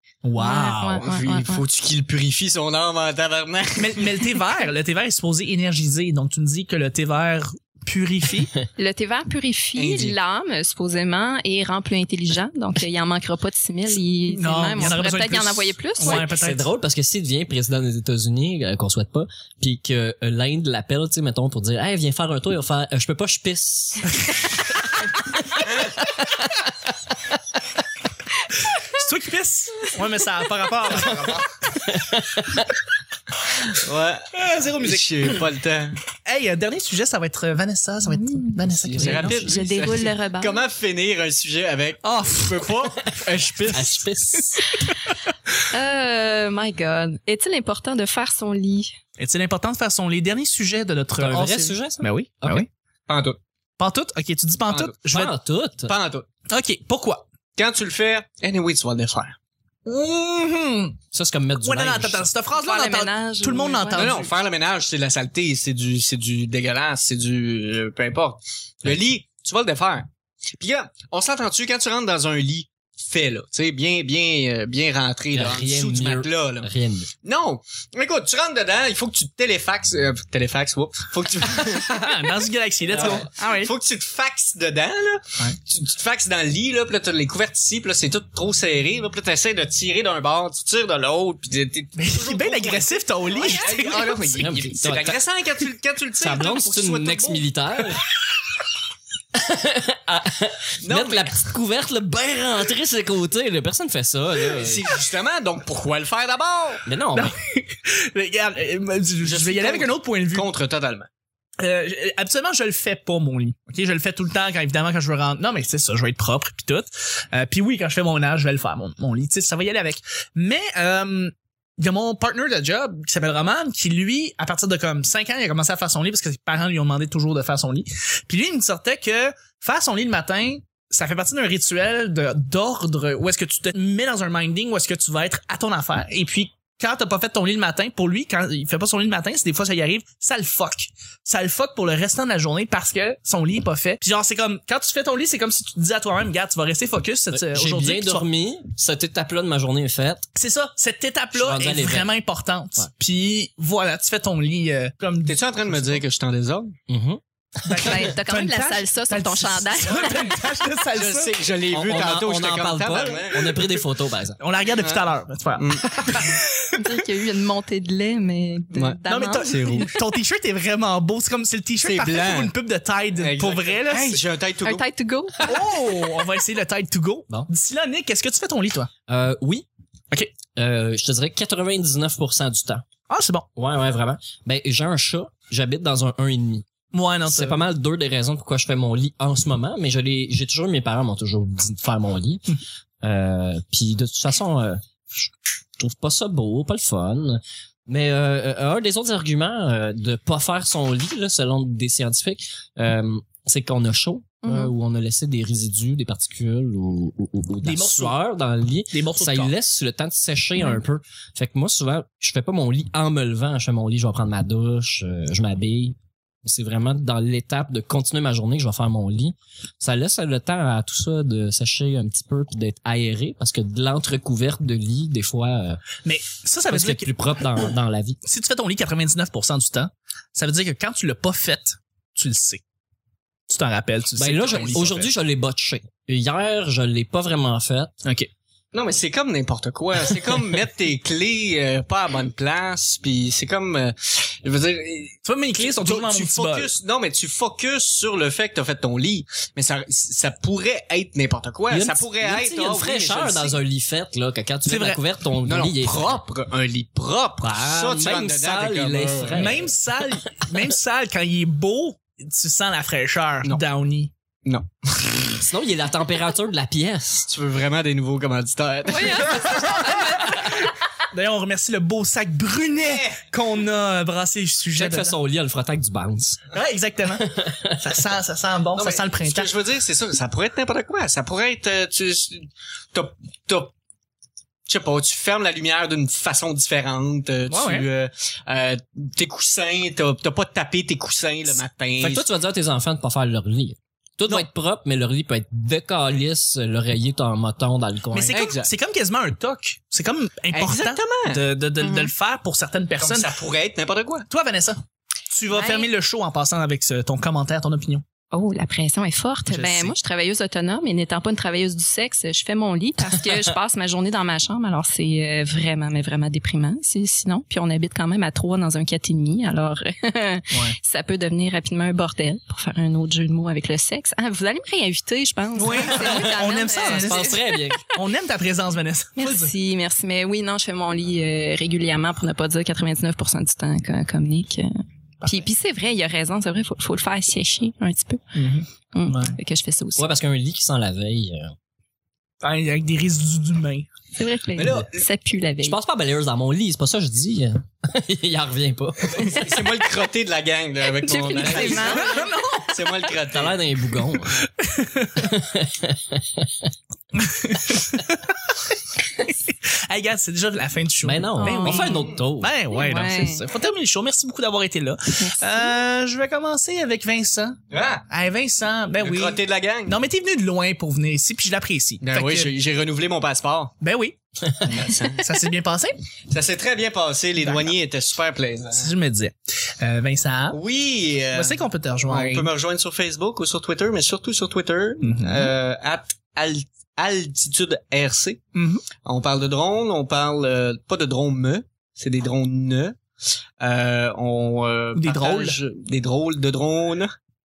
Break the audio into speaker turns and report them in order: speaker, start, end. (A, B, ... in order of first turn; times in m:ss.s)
0:00.2-0:01.0 A
0:00.4-0:01.6 B
0:01.0-0:04.1 C
0:03.8-0:08.5 A
0:08.8-0:16.3 B
0:09.8-0:10.2 C
0:14.3-0:16.7 A
0:16.0-0:24.2 D
0:28.9-0:31.6 A
0:31.9-0:32.7 D
0:33.7-0:36.0 C
0:34.3-0:35.4 A
0:36.2-0:39.7 A
0:38.1-0:40.6 B
0:38.9-0:44.0 C
0:42.0-0:42.9 A
0:43.7-0:44.6 D
0:45.7-0:49.0 B
0:49.2-0:52.7 A
0:51.2-0:52.6 D
0:53.1-0:53.4 C
0:53.8-0:55.3 A
0:54.7-0:55.0 C
0:55.1-0:55.9 D
0:55.9-0:56.3 C
0:56.5-0:57.2 A
0:57.6-0:59.4 C
0:59.9-1:01.0 A
1:01.1-1:02.3 D
1:01.6-1:04.3 A
1:02.6-1:04.2 B
1:04.0-1:16.7 C
1:15.3-1:17.1 D
1:17.2-1:22.4 C
1:21.9-1:23.7 A
1:22.9-1:37.5 C
1:32.0-1:34.6 A
1:34.4-1:35.2 D
1:36.2-1:38.0 D
1:39.4-1:44.8 D
1:40.8-1:41.4 C
1:44.5-1:46.8 C
1:46.9-1:47.4 D
1:47.1-1:50.5 A
1:49.2-1:51.1 C
1:51.6-2:28.3 A
2:27.3-2:30.3 D
2:30.4-2:36.0 A
2:31.3-2:32.1 D
2:35.3-2:36.8 C
2:36.9-2:38.1 D
2:37.6-2:41.4 A
2:37.8-2:40.4 B
2:40.9-2:43.6 C
2:41.7-2:44.4 D
2:44.4-2:46.9 A
2:44.7-2:45.0 C
2:45.6-2:46.4 C
2:46.7-2:49.9 B
2:48.7-2:49.9 C
2:49.1-2:54.2 A
2:51.8-2:52.5 C
2:53.2-2:54.9 C
2:54.6-2:55.5 B
2:55.5-2:58.9 A
2:59.1-2:59.7 D
3:00.6-3:02.8 D
3:03.1-3:03.5 A
3:03.6-3:06.6 D
3:06.9-3:07.6 A
3:07.3-3:14.8 D
3:15.8-3:45.8 D
3:24.4-3:24.7 B
3:27.6-3:28.2 A
3:28.9-3:29.5 A
3:46.0-3:47.1 A
3:46.7-3:48.2 D
3:48.2-3:52.6 A
3:53.5-3:55.1 A
3:54.2-3:57.9 D
3:58.7-4:13.6 C
4:05.2-4:06.7 A
4:11.7-4:16.2 D
4:14.7-4:15.0 A
4:15.4-4:19.6 C
4:17.4-4:19.7 D
4:19.3-4:24.1 A
4:24.4-4:25.4 C
4:25.4-4:27.3 D
4:27.3-4:29.9 C
4:28.9-4:30.4 B
4:29.5-4:30.6 A
4:31.1-4:35.2 A
4:32.8-4:33.2 C
4:34.8-4:36.4 D
4:36.5-4:39.5 A
4:37.2-4:37.8 D
4:38.8-4:43.7 C
4:44.7-4:52.3 C
4:47.5-4:47.9 A
4:52.0-4:58.4 D
4:58.1-5:03.3 A
4:58.3-4:58.7 C
5:00.5-5:01.4 C
5:01.8-5:02.1 B
5:03.0-5:04.3 C
5:04.3-5:08.0 A
5:05.5-5:05.9 B
5:08.3-5:27.8 B
5:09.5-5:10.0 A
5:25.6-5:27.4 A
5:26.0-5:27.8 D
5:27.9-5:29.5 A
5:29.2-5:34.7 B
5:35.2-5:38.2 B
5:38.4-5:39.4 A
5:38.9-5:40.1 B
5:40.0-5:41.5 D
5:42.4-5:43.9 A
5:44.2-5:45.8 B
5:44.6-5:45.0 C
5:45.6-5:49.4 D
5:49.2-5:53.6 C
5:50.9-5:52.2 B
5:51.3-5:52.0 D
5:51.8-5:53.1 A
5:53.3-5:54.4 D
5:54.5-5:55.3 A
5:55.2-5:56.7 D
5:57.2-5:58.6 A
5:59.5-6:07.6 A
6:01.0-6:02.6 D
6:01.4-6:02.1 B
6:02.7-6:03.4 B
6:05.2-6:05.7 B
6:07.7-6:08.0 C
6:08.1-6:12.5 A
6:09.0-6:10.0 C
6:12.0-6:13.8 C
6:13.8-6:16.0 A
6:14.7-6:15.3 C
6:16.3-6:18.9 C
6:17.4-6:17.8 A
6:18.8-6:20.6 A
6:20.5-6:28.4 C
6:21.3-6:22.5 A
6:25.0-6:25.5 A
6:28.6-6:28.8 A
6:29.0-6:33.0 C
6:33.6-6:37.1 C
6:35.0-6:35.6 A